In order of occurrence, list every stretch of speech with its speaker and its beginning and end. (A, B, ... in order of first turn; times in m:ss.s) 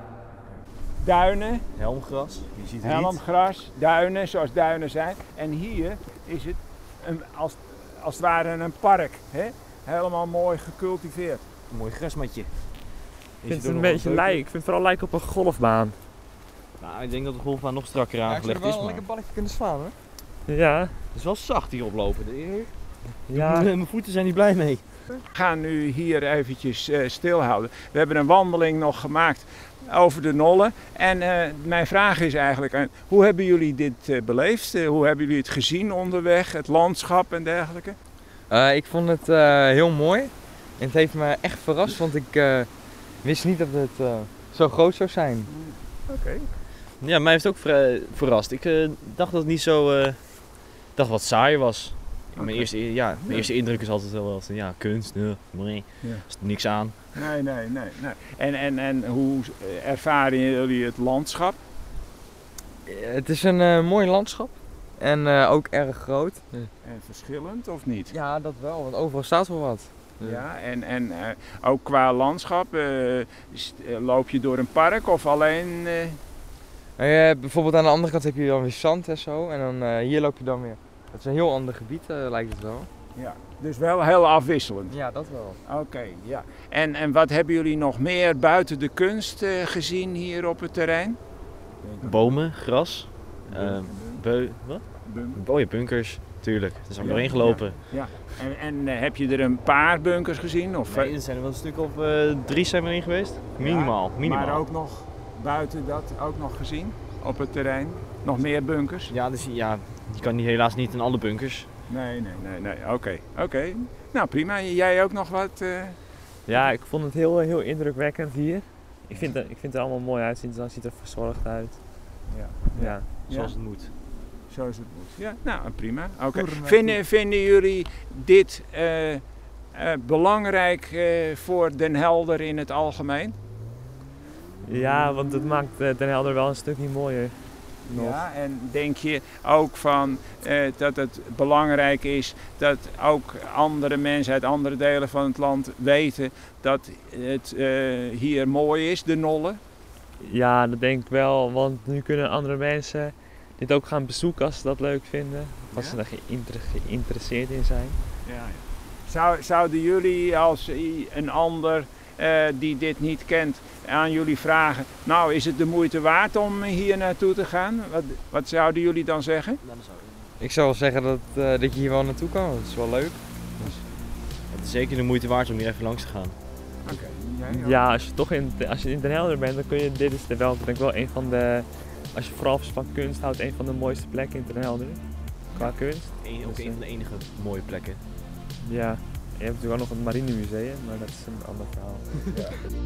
0:00.4-0:01.6 A
0:01.7-0:03.2 B
0:02.8-0:11.4 A
0:11.7-0:12.5 B
0:13.4-0:14.4 B
0:13.4-0:16.0 C
0:16.8-0:19.1 B
0:18.3-0:20.0 D
0:20.5-0:21.0 C
0:21.1-0:22.7 B
0:23.3-0:23.7 C
0:23.3-0:24.8 B
0:25.3-0:38.0 A
0:38.5-0:42.7 D
0:43.2-0:45.5 D
0:45.5-0:46.5 A
0:47.0-0:50.2 B
0:51.0-0:57.0 B
0:52.4-0:53.5 A
0:57.2-1:01.6 A
1:02.8-1:06.4 D
1:06.8-1:08.1 A
1:08.1-1:10.4 D
1:10.2-1:16.2 A
1:17.0-1:22.9 D
1:23.2-1:25.0 A
1:24.9-1:25.6 D
1:25.6-1:31.2 A
1:31.8-1:32.4 A
1:32.0-1:34.8 B
1:33.5-1:34.2 A
1:35.0-1:35.4 A
1:35.4-1:37.8 B
1:37.0-1:41.2 A
1:40.9-1:44.6 B
1:43.6-1:49.1 A
1:49.1-1:51.7 B
1:51.9-1:56.0 A
1:56.5-2:01.8 C
2:02.3-2:03.5 A
2:02.8-2:03.0 C
2:03.3-2:03.9 B
2:04.5-2:09.2 A
2:06.3-2:07.0 D
2:09.7-2:13.4 A
2:14.6-2:17.4 C
2:17.9-2:29.6 A
2:17.9-2:18.2 C
2:30.2-2:38.0 C
2:35.7-2:36.0 B
2:38.2-2:49.6 A
2:49.6-2:50.3 B
2:50.4-2:53.7 D
2:54.5-2:56.4 B
2:56.8-2:57.9 A
2:57.6-3:05.0 C
3:05.5-3:06.8 C
3:06.2-3:08.0 B
3:08.6-3:12.1 C
3:12.3-3:12.6 A